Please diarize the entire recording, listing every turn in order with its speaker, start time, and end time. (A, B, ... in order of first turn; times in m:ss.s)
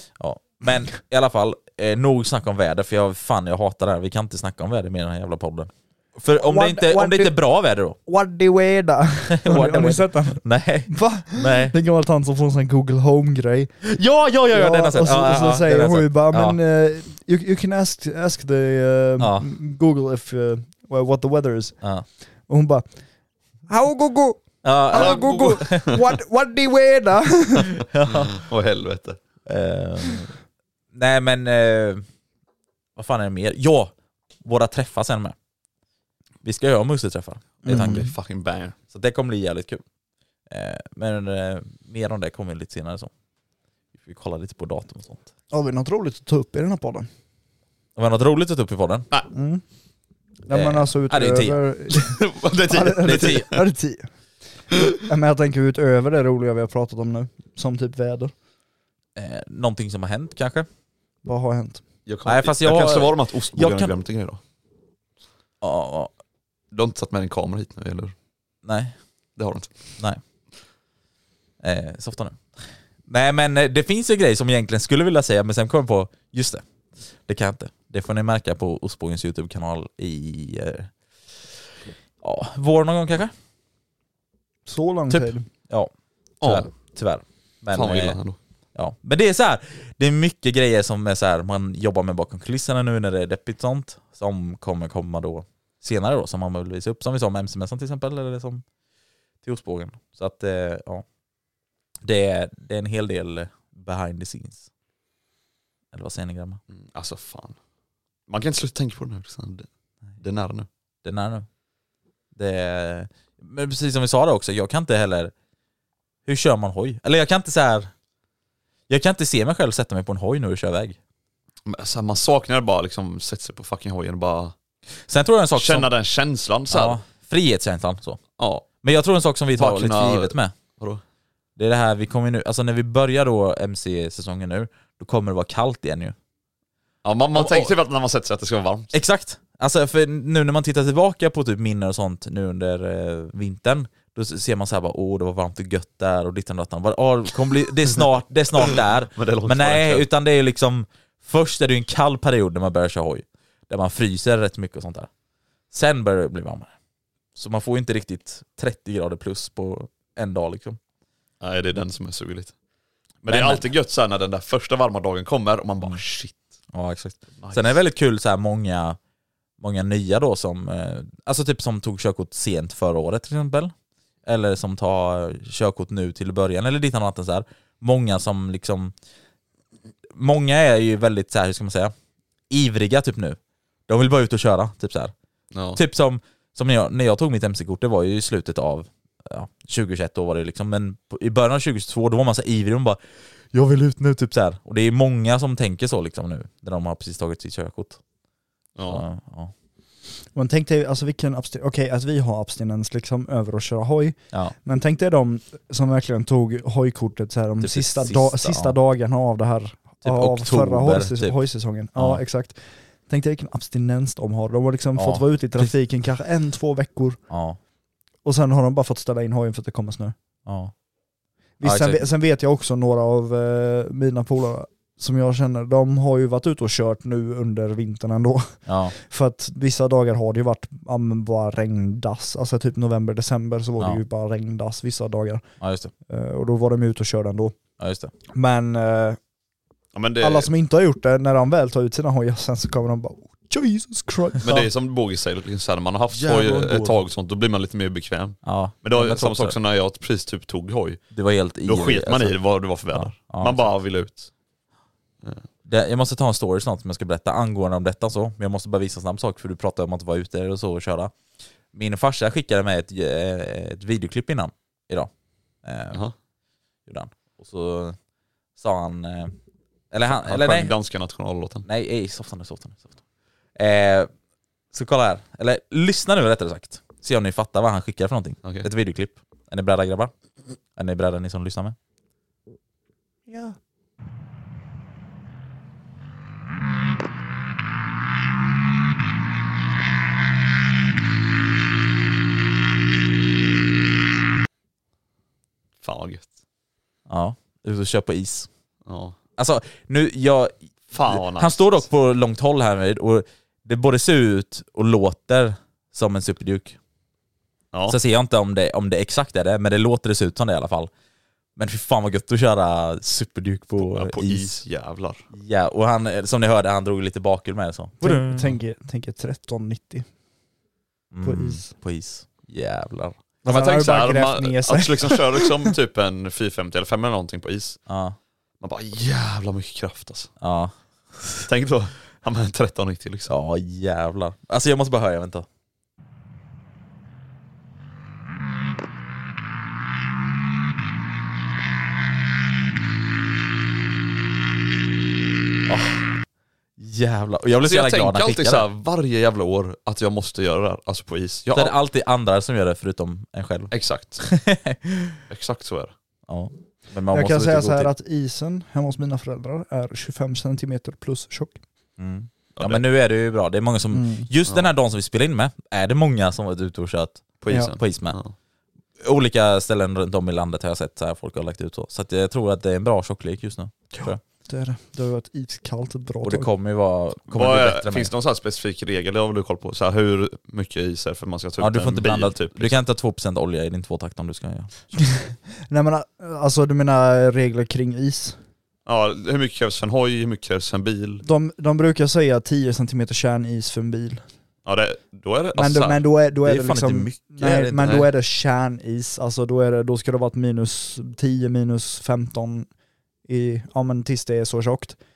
0:00.2-0:08.0 A
0:06.3-0:07.3 B
0:08.0-0:13.7 B
0:09.3-0:11.7 A
0:13.8-0:16.6 A
0:14.5-0:21.8 B
0:19.2-0:19.5 A
0:22.5-0:22.8 B
0:23.7-0:27.7 B
0:24.6-0:25.9 A
0:24.9-0:26.0 C
0:27.9-0:28.4 A
0:28.2-0:29.2 C
0:29.4-0:30.3 A
0:30.9-0:32.0 A
0:33.0-0:33.9 A
0:34.4-0:35.3 A
0:36.4-0:38.1 A
0:37.6-0:38.1 B
0:37.6-0:38.8 C
0:38.9-0:39.8 A
0:40.5-0:43.1 A
0:44.0-0:45.2 A
0:45.5-0:47.1 B
0:48.0-0:49.1 A
0:49.3-0:49.6 B
0:50.5-0:52.2 B
0:50.5-0:51.6 A
0:51.9-0:53.5 C
0:52.7-0:54.1 B
0:52.9-0:53.5 A
0:55.0-0:58.3 B
0:59.2-1:00.7 A
1:01.2-1:01.8 B
1:02.0-1:04.4 C
1:02.2-1:04.0 A
1:05.6-1:06.1 A
1:06.7-1:08.1 C
1:08.6-1:08.9 A
1:09.4-1:09.8 C
1:11.6-1:12.4 A
1:13.1-1:16.6 A
1:17.3-1:20.9 A
1:22.2-1:23.3 A
1:24.7-1:25.4 B
1:25.7-1:28.2 A
1:26.4-1:26.7 C
1:27.7-1:28.4 C
1:28.7-1:38.6 A
1:39.4-1:41.0 A
1:42.0-1:44.7 A
1:45.9-1:46.6 A
1:46.7-1:47.6 C
1:48.3-1:49.7 C
1:50.2-1:50.7 C
1:51.0-1:51.5 A
1:52.3-1:55.3 A
1:56.2-1:57.9 A
1:58.9-2:01.0 A
2:01.6-2:04.5 C
2:05.1-2:05.9 A
2:05.6-2:07.0 C
2:06.7-2:08.2 A
2:08.4-2:08.6 C
2:08.8-2:10.5 A
2:09.5-2:11.0 C
2:11.6-2:16.1 A
2:17.0-2:18.9 C
2:17.3-2:17.7 A
2:18.9-2:35.1 A
2:29.2-2:30.0 C
2:35.7-2:36.7 A
2:37.4-2:40.8 A
2:41.4-2:42.5 C
2:43.2-2:46.4 C
2:43.3-2:43.6 A
2:46.7-2:49.0 A
2:47.4-2:47.8 C
2:49.6-2:53.7 A
2:54.2-2:58.9 A
3:00.1-3:01.9 A
3:02.5-3:05.1 A
3:05.5-3:05.8 C
3:05.7-3:13.0 A
3:13.5-3:18.0 A
3:18.8-3:19.0 C
3:18.8-3:19.5 A
3:20.3-3:37.2 B
3:27.6-3:28.8 A
3:30.0-3:31.4 A
3:31.9-3:32.2 A
3:35.0-3:35.7 A
3:37.3-3:37.6 A
3:38.2-3:40.1 B
3:40.4-3:40.7 A
3:41.6-3:55.4 B
3:41.6-3:42.0 A
3:48.6-3:48.9 A
3:55.6-3:55.9 A
3:56.1-3:57.5 B
3:57.8-3:58.1 A
3:58.3-3:59.2 B
3:59.9-4:00.5 C
4:00.2-4:04.7 B
4:04.4-4:11.0 C
4:06.1-4:07.0 A
4:08.4-4:09.6 A
4:11.1-4:12.4 A
4:11.6-4:14.3 C
4:12.9-4:13.7 A
4:15.6-4:21.1 A
4:21.7-4:25.1 A
4:25.6-4:26.0 A
4:26.9-4:28.0 A
4:28.6-4:29.3 A
4:29.9-4:30.7 A
4:30.1-4:31.6 C
4:31.6-4:33.0 A
4:33.6-4:34.1 A
4:34.7-4:40.1 A
4:40.8-4:41.8 A
4:55.8-4:56.3 C
4:57.1-4:58.5 A
4:58.8-4:59.2 C
4:59.4-5:06.8 A
5:00.9-5:01.8 C
5:07.9-5:10.9 A
5:11.6-5:14.6 A
5:13.8-5:15.2 C
5:15.3-5:18.6 A
5:18.0-5:20.1 B
5:21.1-5:23.2 A
5:21.2-5:21.7 B
5:23.4-5:25.6 B
5:23.4-5:27.8 C
5:27.9-5:28.2 A
5:28.6-5:30.3 C
5:30.4-5:31.5 A
5:31.5-5:33.3 C
5:33.3-5:35.4 A
5:45.6-5:46.1 A
5:46.8-5:48.6 A
5:47.6-5:51.7 C
5:51.5-5:55.2 A
5:53.7-5:54.2 C
5:55.3-5:55.9 C
5:56.3-5:57.9 A
5:57.1-6:01.6 B
6:02.0-6:08.2 A
6:02.6-6:02.8 C
6:03.9-6:04.3 B
6:07.4-6:08.3 C
6:07.5-6:07.7 B
6:09.0-6:14.2 A
6:14.5-6:16.5 B
6:16.2-6:18.1 A
6:17.3-6:22.7 C
6:21.6-6:24.7 A
6:25.2-6:28.4 B
6:28.8-6:31.2 C
6:31.2-6:34.2 B
6:34.6-6:36.0 C
6:35.5-6:42.7 B
6:36.4-6:38.0 A
6:43.3-6:45.0 B